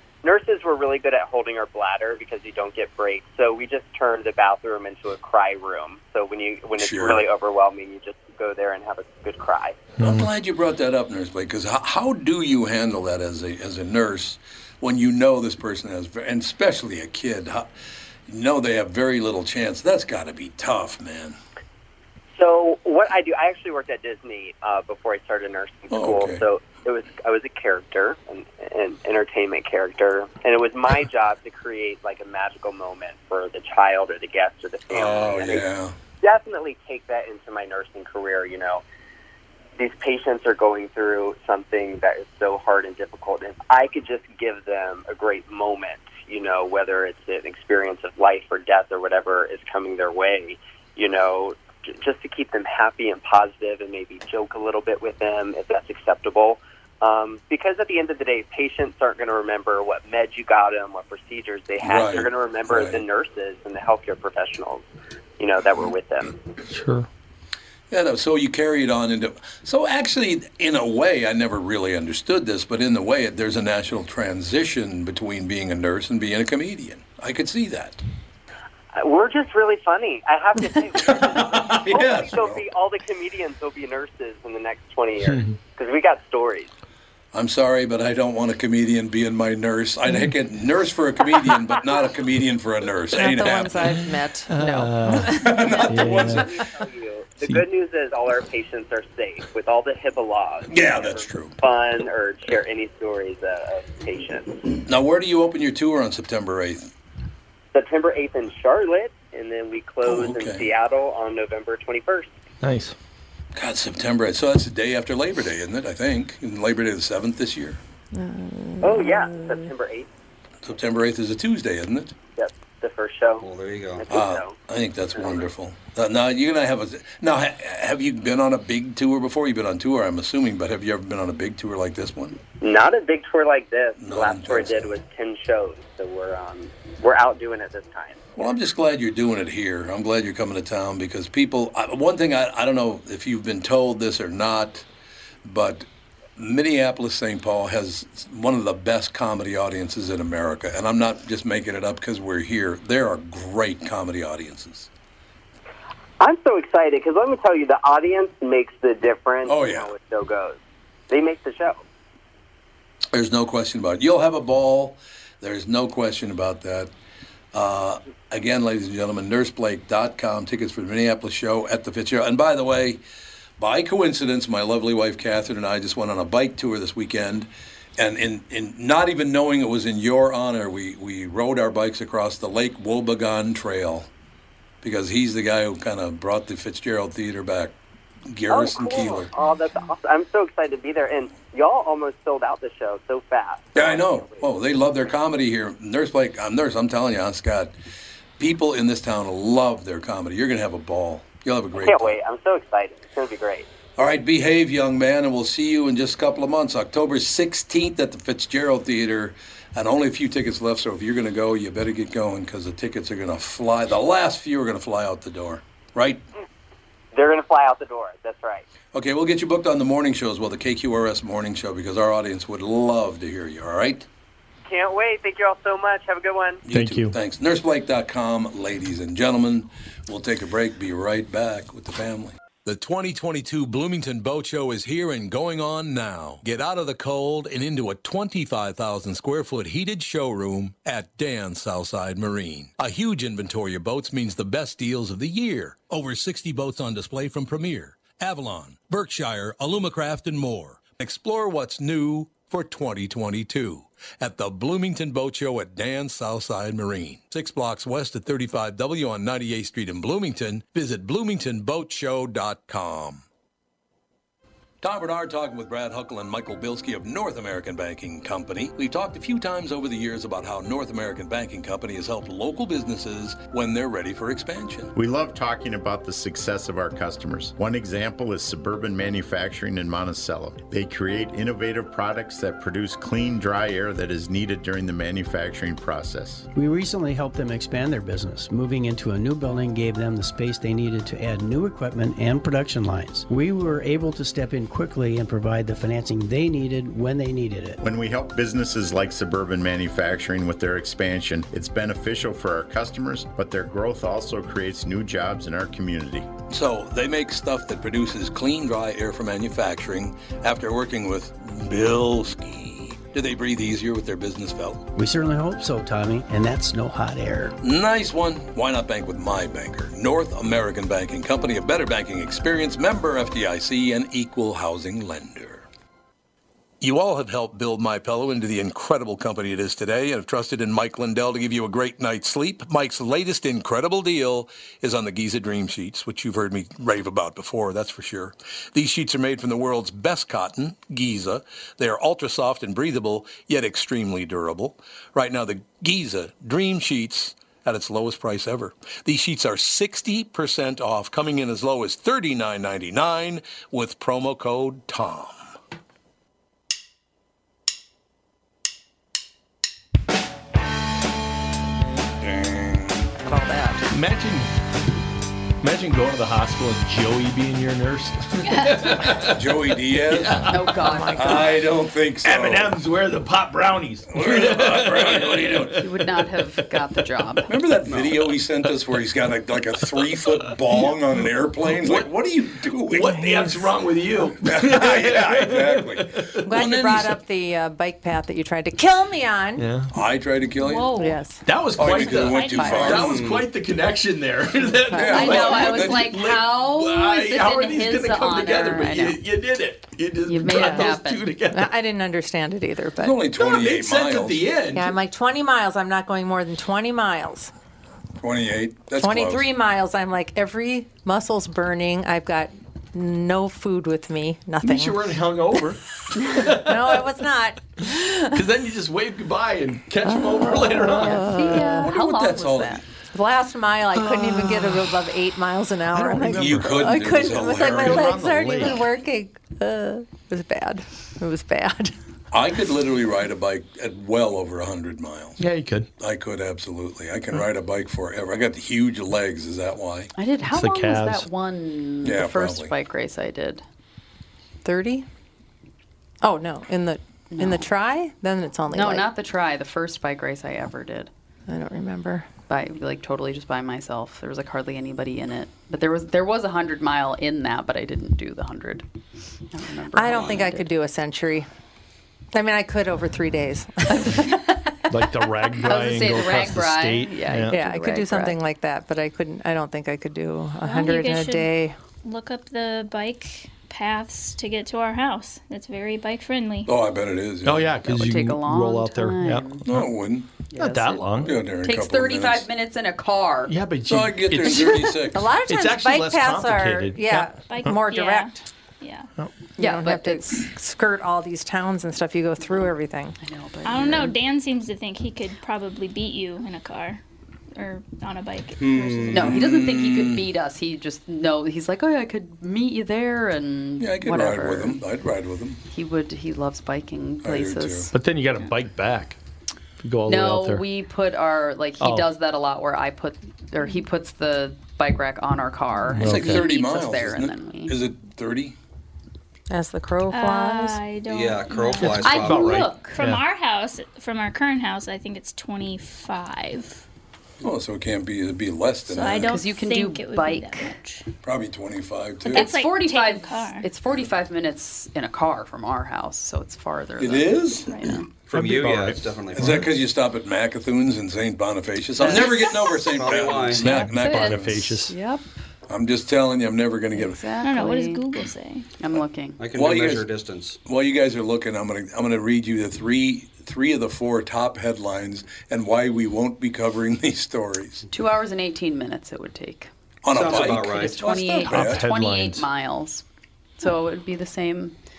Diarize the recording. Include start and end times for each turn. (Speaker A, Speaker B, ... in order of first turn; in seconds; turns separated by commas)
Speaker A: 0.2-9.8, Speaker B: 6.8-7.2, Speaker C: 10.0-10.3, Speaker B: 10.0-17.7, Speaker B: 18.3-21.4, Speaker A: 22.4-35.6, Speaker B: 25.9-26.4, Speaker B: 34.9-35.9, Speaker A: 36.2-38.8, Speaker A: 39.8-64.8, Speaker B: 61.8-63.0, Speaker A: 65.4-66.4, Speaker C: 66.7-67.1, Speaker B: 67.9-78.0, Speaker A: 78.9-86.7, Speaker B: 81.0-82.6, Speaker C: 85.2-85.5, Speaker B: 87.3-94.0, Speaker D: 93.1-95.7, Speaker C: 93.9-96.5, Speaker B: 95.3-96.5, Speaker A: 96.1-104.6, Speaker B: 100.7-101.5, Speaker B: 104.8-106.9, Speaker A: 107.7-112.3, Speaker B: 110.0-110.7, Speaker C: 112.6-112.9, Speaker B: 113.5-117.8, Speaker D: 118.1-119.6, Speaker A: 118.8-120.1, Speaker B: 120.6-122.1, Speaker A: 122.3-123.4, Speaker E: 123.4-124.0, Speaker A: 124.0-124.6, Speaker B: 124.1-132.4, Speaker A: 125.2-125.4, Speaker A: 132.6-138.2, Speaker B: 134.0-134.9, Speaker B: 138.3-144.8, Speaker B: 145.4-145.8, Speaker B: 146.4-154.9, Speaker A: 156.2-160.6, Speaker B: 159.4-159.9, Speaker A: 161.1-161.8, Speaker B: 163.1-166.9, Speaker B: 167.5-173.0, Speaker B: 173.6-184.1, Speaker B: 184.8-187.7, Speaker B: 188.3-189.3, Speaker A: 188.5-194.5, Speaker B: 193.7-197.7, Speaker B: 198.4-202.2, Speaker A: 201.8-203.7, Speaker B: 204.0-216.2, Speaker A: 217.1-218.6, Speaker B: 218.9-224.1, Speaker A: 224.7-226.6, Speaker B: 226.6-263.2, Speaker C: 226.7-227.2, Speaker B: 264.8-274.9, Speaker F: 274.9-286.4, Speaker G: 286.5-297.8, Speaker F: 297.8-306.3, Speaker B: 306.5-314.8, Speaker G: 314.9-317.6, Speaker B: 317.6-325.6, Speaker B: 326.8-355.4, Speaker B: 362.2-363.1, Speaker D: 363.2-363.8, Speaker C: 363.9-364.5, Speaker C: 365.6-371.1, Speaker H: 368.4-369.1, Speaker B: 369.3-370.6, Speaker I: 370.5-371.5, Speaker D: 370.9-371.6, Speaker B: 371.1-372.8, Speaker C: 372.2-377.0, Speaker B: 374.1-375.8, Speaker I: 375.8-377.5, Speaker B: 377.5-383.7, Speaker C: 379.9-382.2, Speaker C: 382.9-386.5, Speaker B: 384.4-387.2, Speaker D: 386.4-389.7, Speaker C: 389.6-389.9, Speaker B: 389.9-391.0, Speaker H: 390.6-391.2, Speaker D: 390.9-391.4, Speaker C: 391.4-401.7, Speaker H: 391.8-393.0, Speaker B: 391.8-393.2, Speaker I: 392.4-393.0, Speaker E: 393.0-393.5, Speaker B: 394.9-396.1, Speaker D: 394.9-395.2, Speaker I: 395.0-399.2, Speaker I: 400.2-401.3, Speaker D: 400.5-400.9, Speaker D: 401.5-403.2, Speaker B: 403.0-404.4, Speaker C: 403.4-404.9, Speaker D: 404.7-407.5, Speaker B: 408.2-409.5, Speaker D: 409.0-415.1, Speaker C: 414.6-417.2, Speaker D: 416.3-418.4, Speaker C: 418.3-421.6, Speaker D: 420.1-421.9, Speaker I: 420.9-422.8, Speaker B: 421.8-422.8, Speaker D: 423.1-431.9, Speaker C: 423.9-425.0, Speaker C: 425.9-428.9, Speaker B: 426.3-428.1, Speaker B: 432.3-435.4, Speaker C: 435.4-435.9, Speaker B: 436.0-440.1, Speaker I: 440.1-443.6, Speaker C: 440.5-441.3, Speaker B: 442.0-442.7, Speaker D: 444.6-445.1, Speaker D: 446.2-449.1, Speaker I: 447.3-447.7, Speaker I: 448.7-451.1, Speaker D: 451.5-452.2, Speaker I: 452.5-458.9, Speaker I: 459.5-460.7, Speaker D: 459.9-461.5, Speaker D: 462.3-464.4, Speaker I: 464.1-464.6, Speaker C: 464.9-467.6, Speaker I: 465.6-468.4, Speaker D: 467.5-471.8, Speaker H: 470.6-476.7, Speaker B: 476.6-477.8, Speaker C: 477.4-479.9, Speaker I: 477.9-479.6, Speaker B: 479.6-480.3, Speaker I: 480.5-483.5, Speaker C: 480.5-481.4, Speaker B: 481.2-482.4, Speaker C: 483.5-484.9, Speaker B: 483.9-485.3, Speaker D: 485.0-488.4, Speaker C: 485.4-487.8, Speaker H: 487.5-489.1, Speaker D: 489.6-493.1, Speaker I: 489.6-490.4, Speaker I: 493.2-494.1, Speaker H: 493.6-497.0, Speaker H: 497.5-499.3, Speaker E: 498.6-499.4, Speaker I: 499.1-504.8, Speaker B: 499.1-500.2, Speaker B: 503.8-505.6, Speaker I: 505.7-507.9, Speaker B: 507.2-507.9, Speaker C: 507.9-509.2, Speaker C: 509.8-510.6, Speaker I: 510.1-517.8, Speaker C: 511.8-512.1, Speaker C: 515.9-516.5, Speaker B: 516.0-518.5, Speaker D: 519.5-520.8, Speaker H: 520.1-526.8, Speaker E: 521.0-522.8, Speaker I: 521.9-523.0, Speaker C: 523.0-523.2, Speaker B: 527.4-529.4, Speaker H: 528.9-531.0, Speaker I: 529.3-530.8, Speaker B: 531.2-532.5, Speaker H: 532.2-533.7, Speaker I: 532.3-538.1, Speaker B: 537.0-537.8, Speaker E: 538.2-539.7, Speaker C: 538.3-539.6, Speaker B: 539.3-544.8, Speaker I: 542.0-542.4, Speaker E: 542.8-543.8, Speaker C: 543.6-545.0, Speaker I: 543.7-545.2, Speaker B: 545.7-547.2, Speaker I: 546.9-548.0, Speaker H: 547.4-548.7, Speaker I: 548.8-549.4, Speaker E: 549.4-550.6, Speaker B: 549.5-550.1, Speaker B: 550.6-557.8, Speaker I: 557.9-559.7, Speaker B: 560.0-561.8, Speaker E: 560.1-561.0, Speaker C: 560.3-562.5, Speaker I: 560.7-563.0, Speaker I: 563.6-564.7